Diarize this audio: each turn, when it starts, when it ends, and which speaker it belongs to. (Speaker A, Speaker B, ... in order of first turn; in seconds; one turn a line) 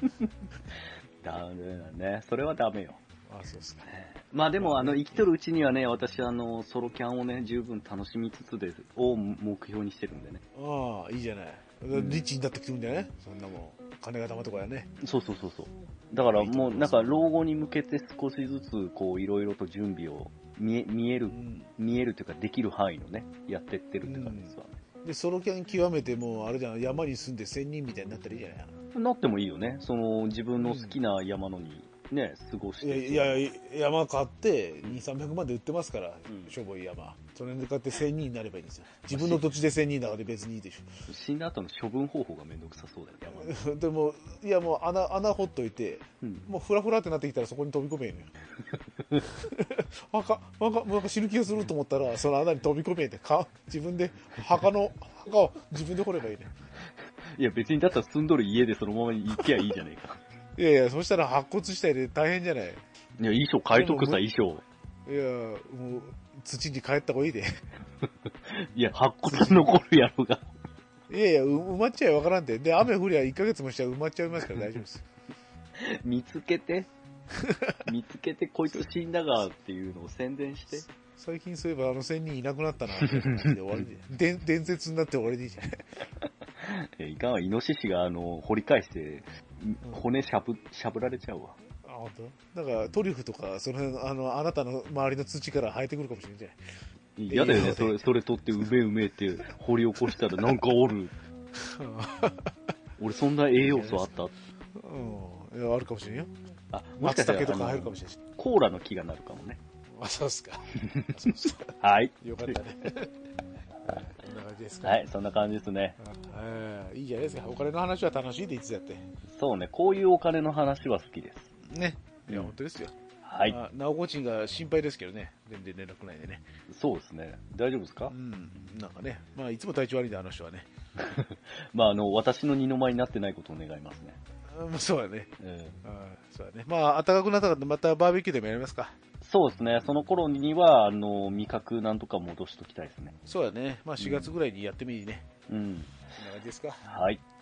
Speaker A: 1.2-3.0
Speaker B: 3.3-3.9
Speaker A: 3.8-10.4
Speaker B: 4.6-5.3
Speaker B: 10.5-14.9
Speaker A: 11.9-12.2
Speaker A: 15.0-24.8
Speaker B: 16.2-17.1
Speaker B: 21.3-21.7
Speaker B: 24.0-28.7
Speaker A: 28.9-33.4
Speaker B: 30.6-31.0
Speaker B: 32.8-40.9
Speaker A: 36.3-36.5
Speaker A: 39.1-39.5
Speaker A: 41.1-43.6
Speaker B: 43.3-48.3
Speaker A: 46.2-46.5
Speaker A: 48.6-49.2
Speaker B: 49.3-56.5
Speaker A: 57.2-60.2
Speaker B: 60.6-62.8
Speaker A: 63.2-64.6
Speaker B: 63.7-64.2
Speaker B: 65.0-67.6
Speaker A: 68.0-70.5
Speaker B: 69.2-69.6
Speaker B: 71.1-75.1
Speaker A: 75.7-76.9
Speaker B: 77.4-77.8
Speaker A: 77.8-80.8
Speaker B: 81.1-85.8
Speaker A: 83.0-83.8
Speaker A: 86.2-91.6
Speaker B: 91.8-96.6
Speaker A: 97.2-101.1
Speaker B: 97.3-98.0
Speaker B: 101.5-102.5
Speaker A: 103.0-104.3
Speaker B: 103.6-104.1
Speaker B: 104.7-106.3
Speaker A: 106.7-109.6
Speaker B: 107.0-108.2
Speaker B: 109.9-113.1
Speaker A: 110.8-112.6
Speaker B: 113.9-115.0
Speaker A: 114.8-116.0
Speaker B: 116.0-119.0
Speaker A: 119.3-121.5
Speaker B: 121.7-122.9
Speaker A: 122.3-122.5
Speaker A: 123.2-123.6
Speaker B: 123.4-126.5
Speaker A: 126.7-128.1
Speaker B: 128.1-130.7
Speaker A: 131.0-134.2
Speaker B: 134.5-135.3
Speaker A: 135.4-135.8
Speaker B: 135.8-138.9
Speaker A: 139.2-143.2
Speaker B: 143.2-145.3
Speaker A: 144.0-144.3
Speaker A: 145.5-145.9
Speaker B: 146.2-146.8
Speaker A: 146.8-147.2